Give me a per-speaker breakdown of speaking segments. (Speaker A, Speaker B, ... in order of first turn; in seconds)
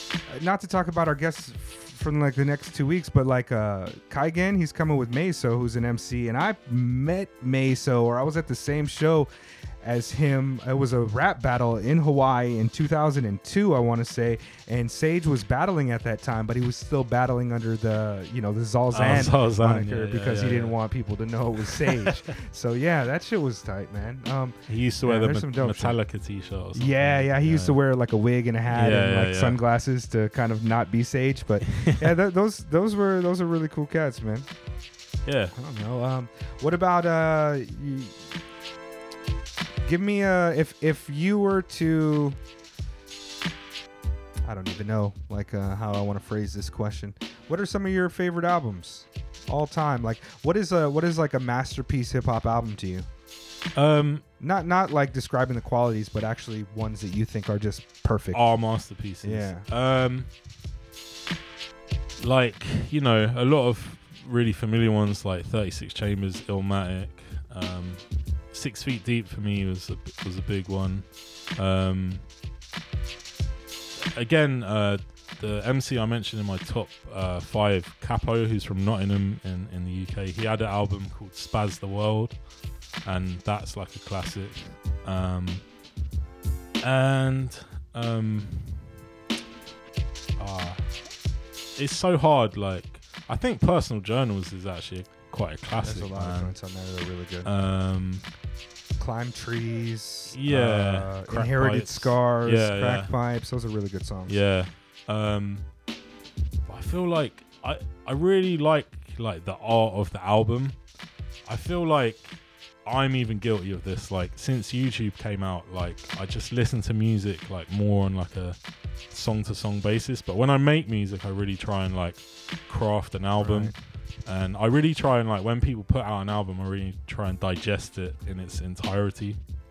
Speaker A: 0.3-9.3, 9.8-26.0, 26.7-34.5, 35.5-38.2, 39.8-42.4, 44.4-53.1, 54.4-58.5, 59.2-59.7, 95.7-97.5, 99.0-104.4, 123.4-123.7
Speaker B: 18.9-20.8, 21.7-22.2, 24.7-27.8, 28.7-29.6, 31.7-32.1, 35.2-35.5, 53.7-54.2, 58.3-60.3, 62.2-72.2, 74.0-82.4, 83.0-85.6, 86.8-88.9, 90.4-90.9, 91.8-96.5, 97.4-98.3, 100.3-103.1, 104.3-105.7, 106.7-110.8, 111.5-118.6, 119.1-123.7, 124.3-129.4